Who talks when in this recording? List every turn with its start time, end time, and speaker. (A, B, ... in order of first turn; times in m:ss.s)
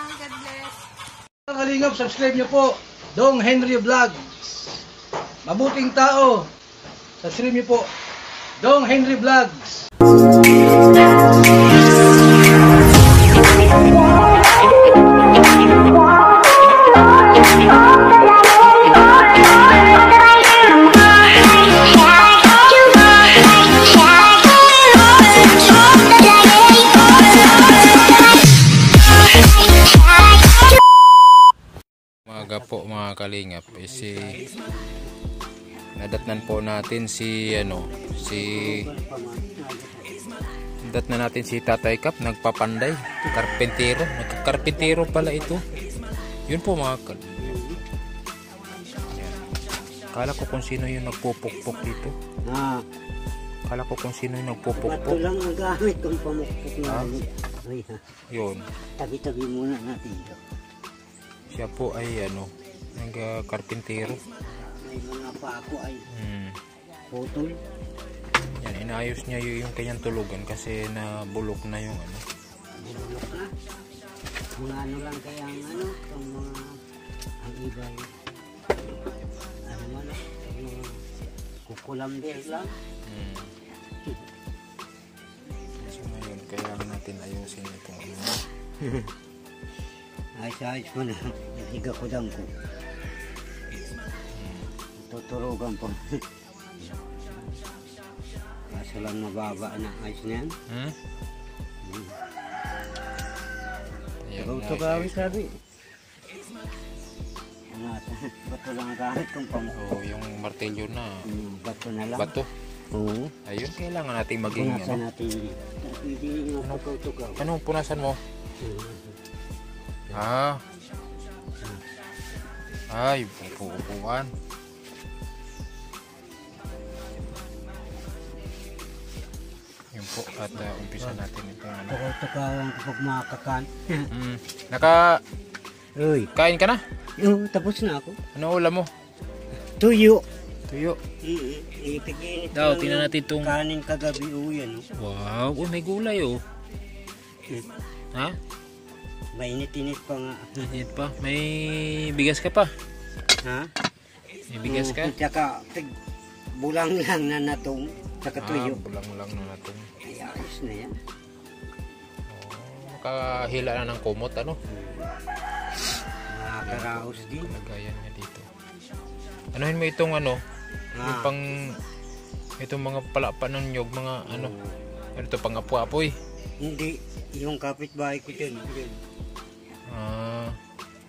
0:01.5-0:04.2 A
0:05.4-0:06.4 A
0:07.2-0:07.9 A
0:08.6-0:09.6 A
0:32.3-0:34.4 B
0:32.4-0:33.0 C
0:33.8-0:35.1 C
0:36.0-0:38.8 B
0:37.9-0:40.1 C
0:40.8-0:45.6 B
0:44.5-0:45.8 C
0:46.5-0:47.7 B
0:47.4-0:47.8 C
0:49.1-0:49.4 B
0:50.1-0:52.1 B
0:52.5-0:52.8 C
0:53.7-0:55.2 B
0:54.8-0:58.0 C
0:56.8-0:57.1 B
0:58.3-0:58.7 B
0:59.0-1:00.4 C
1:01.5-1:04.2 B
1:04.5-1:06.0 C
1:06.1-1:06.6 B
1:07.1-1:07.6 C
1:08.6-1:12.2 B
1:12.8-1:13.5 C
1:14.6-1:16.8 C
1:17.4-1:18.1 C
1:19.7-1:21.0 C
1:21.7-1:22.7 C
1:23.0-1:23.5 B
1:25.8-1:28.4 B
1:30.4-1:32.5 C
1:34.3-1:34.7 B
1:35.0-1:36.2 C
1:36.8-1:37.2 C
1:38.7-1:40.5 C
1:40.7-1:41.0 B
1:41.8-1:42.2 C
1:44.2-1:45.4 B
1:44.4-1:45.6 C
1:47.7-1:49.8 C
1:49.8-1:51.3 B
1:51.2-1:52.3 C
1:52.1-1:52.5 B
1:52.9-1:53.3 C
1:53.4-1:55.0 B
1:54.5-1:57.5 C
1:57.4-1:58.2 B
1:58.6-1:59.1 C
2:00.1-2:00.6 B
2:02.9-2:04.3 B
2:09.9-2:12.0 B
2:11.9-2:14.1 C
2:14.1-2:15.2 B
2:16.0-2:16.3 C
2:16.3-2:16.8 B
2:17.2-2:18.2 C
2:18.3-2:18.9 B
2:19.8-2:20.2 C
2:20.7-2:21.0 B
2:21.2-2:24.8 C
2:22.5-2:23.5 B
2:25.0-2:26.4 B
2:29.4-2:30.8 C
2:30.7-2:32.7 B
2:33.4-2:33.7 C
2:34.5-2:35.1 B
2:34.7-2:35.9 C
2:36.5-2:38.8 C
2:38.4-2:39.8 B
2:40.0-2:40.9 C
2:42.3-2:44.6 B
2:44.7-2:45.1 C
2:46.3-2:47.5 C
2:46.6-2:48.5 B
2:49.5-2:50.4 B
2:51.0-2:51.3 C
2:51.0-2:51.8 B
2:52.6-2:54.5 B
2:54.3-2:54.7 C
2:55.2-2:56.2 B
2:56.6-2:59.0 C
2:59.9-3:00.6 B